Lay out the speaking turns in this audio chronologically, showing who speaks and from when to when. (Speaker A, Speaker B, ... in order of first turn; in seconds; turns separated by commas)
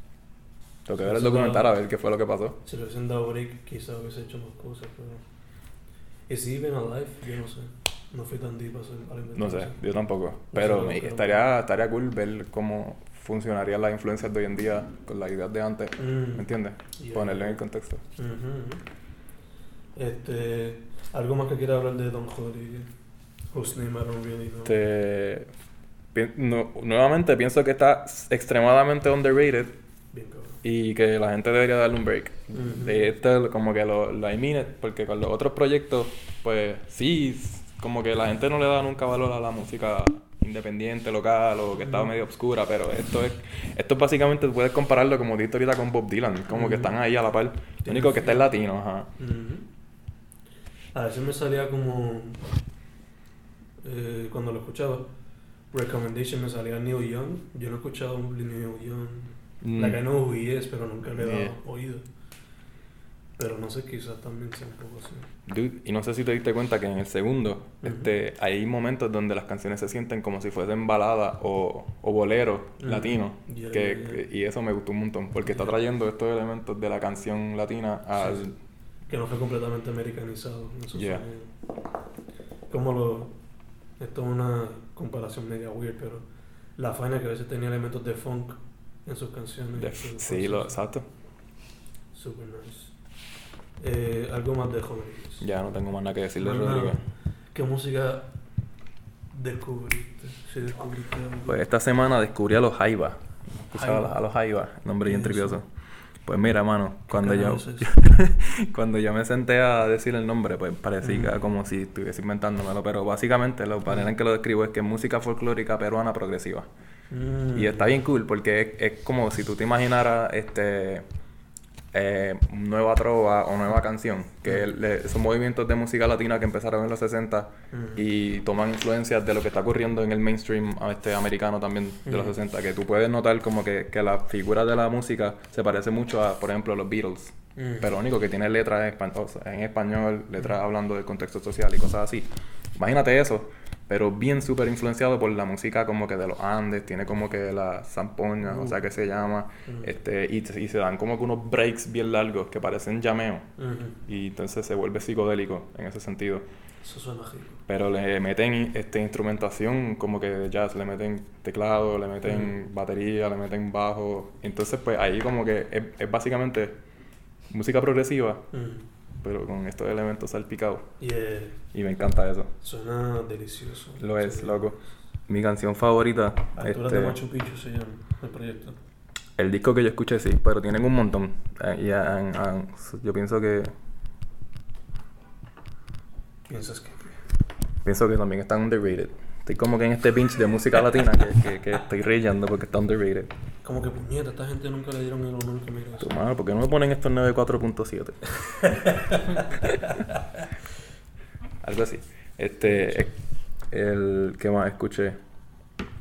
Speaker A: 0.8-2.6, Speaker B: 0.9-1.7, Speaker B: 2.6-5.2, Speaker B: 6.3-9.8, Speaker A: 9.3-18.0, Speaker B: 10.5-11.4, Speaker B: 16.0-17.6, Speaker B: 18.1-18.8, Speaker B: 19.9-22.9, Speaker B: 23.5-24.8, Speaker A: 24.6-25.5, Speaker A: 26.1-29.8, Speaker B: 30.1-30.6, Speaker A: 30.6-49.1, Speaker B: 32.5-33.1, Speaker B: 41.8-42.1, Speaker B: 46.5-47.0, Speaker B: 47.8-48.5, Speaker B: 49.2-49.7, Speaker B: 50.9-52.5, Speaker B: 53.8-55.1, Speaker B: 55.7-62.0, Speaker A: 59.6-60.0, Speaker A: 61.2-61.5, Speaker B: 63.4-65.3, Speaker A: 65.5-78.5, Speaker B: 67.8-68.1, Speaker B: 72.8-74.2, Speaker B: 75.5-75.7, Speaker B: 78.2-78.4, Speaker B: 79.1-81.5, Speaker A: 80.9-81.2, Speaker B: 82.7-83.3, Speaker B: 84.0-86.2, Speaker B: 86.8-90.7, Speaker A: 89.8-91.0, Speaker B: 92.1-92.9, Speaker B: 93.8-95.5, Speaker A: 95.4-97.0, Speaker B: 96.4-97.0, Speaker B: 97.5-98.3, Speaker B: 99.3-101.6, Speaker A: 101.5-103.2, Speaker A: 103.7-105.7, Speaker B: 103.7-104.2, Speaker B: 105.0-105.6, Speaker A: 106.2-116.7, Speaker B: 107.1-107.9, Speaker B: 111.0-111.3, Speaker B: 117.1-117.9, Speaker A: 117.5-121.0, Speaker A: 121.9-153.5, Speaker B: 127.7-128.0, Speaker B: 132.1-132.3, Speaker B: 137.6-137.9, Speaker B: 148.4-148.8, Speaker B: 149.7-149.9, Speaker B: 153.6-154.0, Speaker A: 154.1-156.4, Speaker B: 156.8-157.6, Speaker A: 157.7-166.8, Speaker A: 167.5-168.5, Speaker B: 168.5-168.9, Speaker A: 169.2-170.9, Speaker B: 171.0-171.6, Speaker A: 171.7-172.5, Speaker B: 172.6-174.7, Speaker A: 174.0-174.8, Speaker A: 175.3-177.2, Speaker B: 176.6-178.8, Speaker A: 179.4-183.7, Speaker B: 186.4-187.2, Speaker A: 187.8-193.3, Speaker B: 193.6-196.1, Speaker A: 196.0-198.9, Speaker B: 198.7-199.2, Speaker A: 201.6-203.1, Speaker B: 202.6-203.1, Speaker A: 203.7-205.2